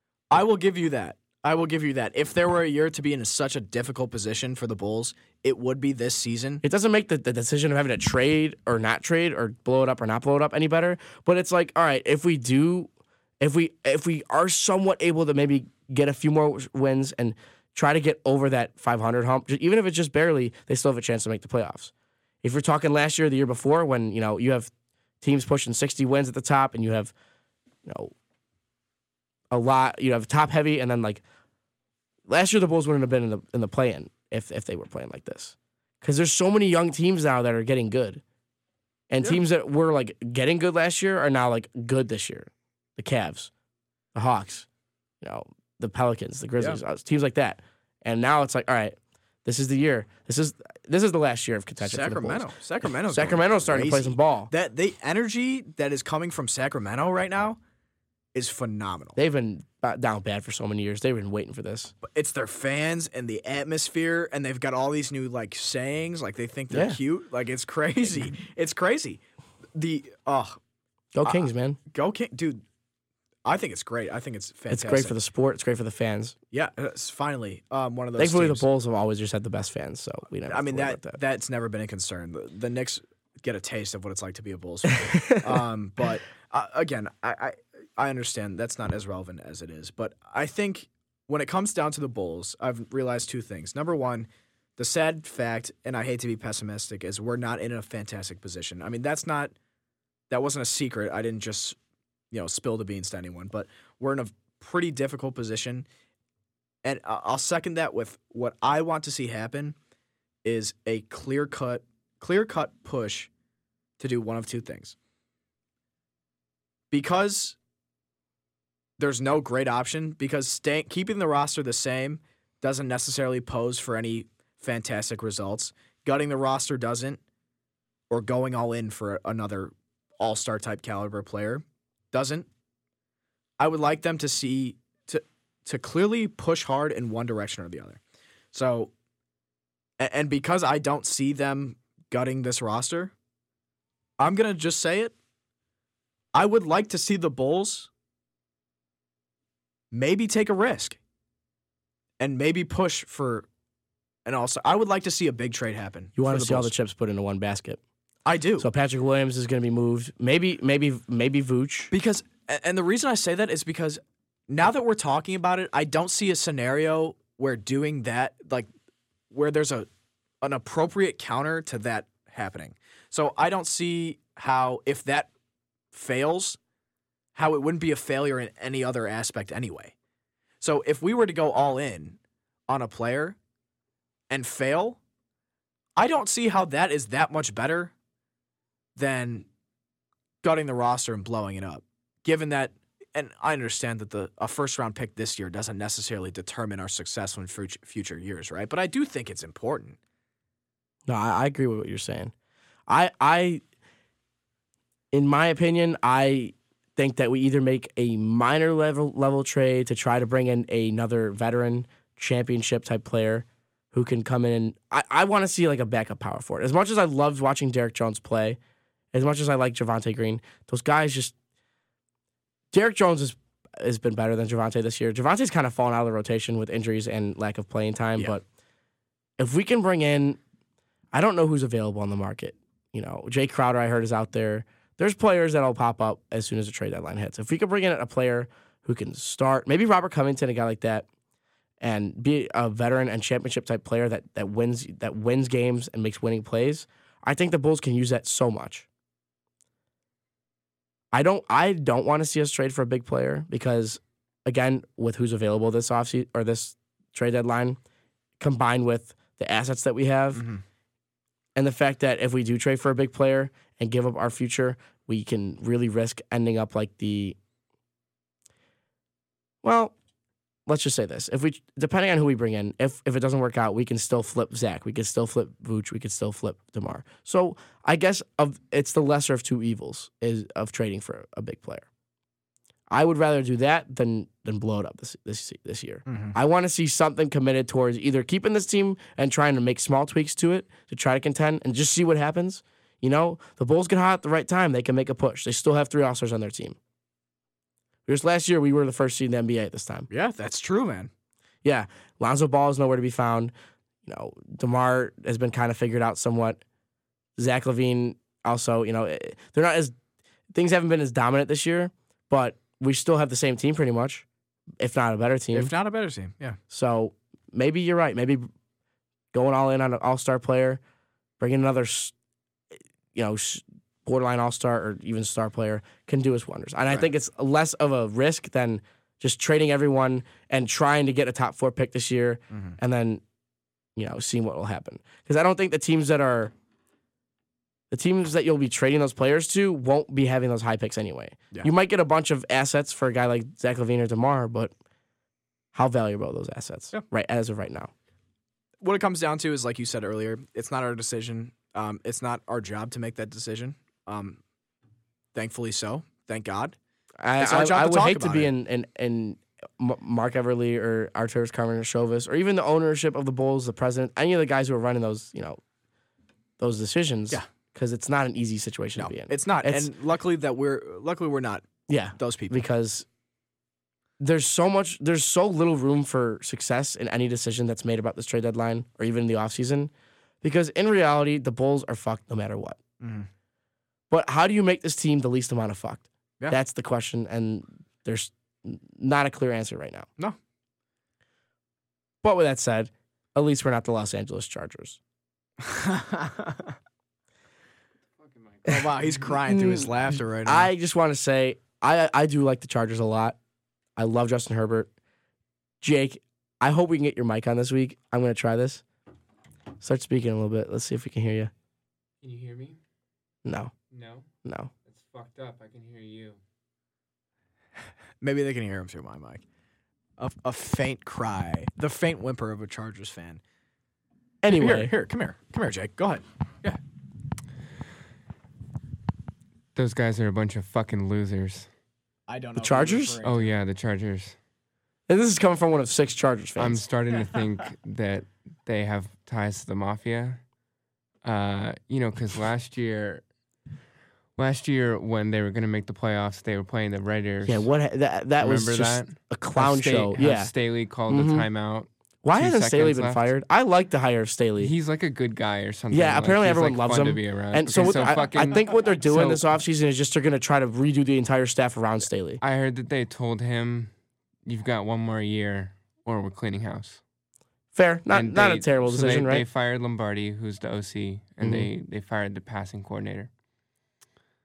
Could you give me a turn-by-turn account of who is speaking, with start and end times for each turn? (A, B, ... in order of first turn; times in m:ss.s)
0:00.3-0:06.6 A
0:06.6-0:12.9 B
0:13.4-0:21.9 B
0:22.4-0:24.7 B
0:25.2-0:27.1 B
0:27.8-0:28.1 B
0:29.5-0:31.2 B
0:32.3-0:38.2 B
0:39.1-0:43.5 B
0:44.1-0:44.7 B
0:45.2-0:54.5 B
0:51.8-0:57.6 A
0:58.3-0:59.2 A
0:59.2-1:01.9 B
1:02.0-1:09.2 A
1:06.7-1:07.0 B
1:09.7-1:10.6 A
1:11.1-1:11.8 B
1:11.2-1:12.6 A
1:13.4-1:15.2 A
1:14.7-1:16.4 B
1:16.5-1:18.6 A
1:18.2-1:21.2 B
1:20.5-1:39.5 A
1:25.0-1:25.6 B
1:40.3-1:41.8 A
1:42.3-1:45.9 A
1:46.8-1:49.8 A
1:50.4-1:53.3 A
1:54.0-1:54.9 A
1:56.9-1:57.6 A
1:59.0-2:07.2 A
2:08.1-2:12.5 A
2:13.6-2:18.0 A
2:18.5-2:18.9 A
2:20.0-2:23.1 A
2:24.2-2:25.1 A
2:26.3-2:27.9 A
2:29.9-2:31.0 A
2:32.2-2:33.5 A
2:34.2-2:36.7 A
2:36.2-2:37.8 B
2:38.2-2:38.7 A
2:38.6-2:41.9 B
2:41.9-2:48.7 A
2:49.3-2:49.9 A
2:50.4-2:55.3 A
2:55.9-2:56.6 A
2:57.3-2:59.9 A
3:00.6-3:03.4 A
3:04.3-3:05.0 A
3:06.0-3:07.9 A
3:09.0-3:09.4 A
3:10.4-3:20.0 A
3:21.1-3:22.3 B
3:22.9-3:23.6 B
3:25.1-3:38.6 B
3:39.1-3:41.3 B
3:42.7-3:48.4 B
3:49.4-3:50.4 B
3:51.1-4:01.0 B
4:01.8-4:08.8 B
4:11.1-4:17.8 B
4:18.4-4:20.4 B
4:20.3-4:20.6 A
4:21.6-4:27.4 B
4:29.6-4:29.9 B
4:30.7-4:41.8 B
4:42.9-4:56.8 B
4:46.1-4:46.3 A
4:58.1-5:00.1 B
5:00.1-5:01.1 A
5:01.6-5:03.5 B
5:04.0-5:06.6 B
5:07.4-5:09.9 B
5:10.5-5:14.2 B
5:14.8-5:15.7 B
5:15.5-5:16.6 A
5:16.7-5:18.5 B
5:19.3-5:20.8 B
5:21.4-5:22.1 B
5:23.1-5:33.2 B
5:32.5-5:32.8 A
5:34.0-5:36.5 B
5:37.9-5:44.7 B
5:45.7-5:47.9 B
5:48.8-5:54.4 A
5:55.3-5:56.8 A
5:57.2-6:05.6 B
5:57.4-5:58.5 A
6:06.6-6:09.9 B
6:09.0-6:12.6 A
6:11.9-6:13.0 B
6:14.2-6:19.9 B
6:20.4-6:22.8 B
6:23.0-6:23.3 A
6:24.1-6:30.1 B
6:32.2-6:35.0 B
6:35.6-6:36.8 A
6:38.2-6:38.7 C
6:38.6-6:40.7 A
6:39.4-6:39.9 B
6:40.4-6:43.4 B
6:44.0-6:44.9 B
6:45.8-6:48.8 B
6:49.8-6:51.5 B
6:52.2-6:52.8 C
6:53.4-6:53.7 B
6:53.9-6:54.3 C
6:54.4-6:54.7 B
6:54.8-6:56.4 C
6:58.2-6:59.4 A
7:00.2-7:03.4 A
7:04.4-7:04.9 B
7:04.5-7:06.8 A
7:09.7-7:11.7 C
7:12.3-7:13.5 A
7:12.6-7:13.2 B
7:13.2-7:14.4 C
7:15.1-7:16.8 B
7:16.6-7:20.5 C
7:21.2-7:23.3 C
7:24.4-7:27.7 C
7:27.4-7:31.5 B
7:28.4-7:33.3 C
7:32.2-7:34.7 B
7:34.6-7:39.4 C
7:35.9-7:42.4 B
7:37.8-7:38.1 A
7:42.4-7:47.0 C
7:47.7-7:49.4 B
7:48.1-7:53.3 C
7:51.4-7:51.7 B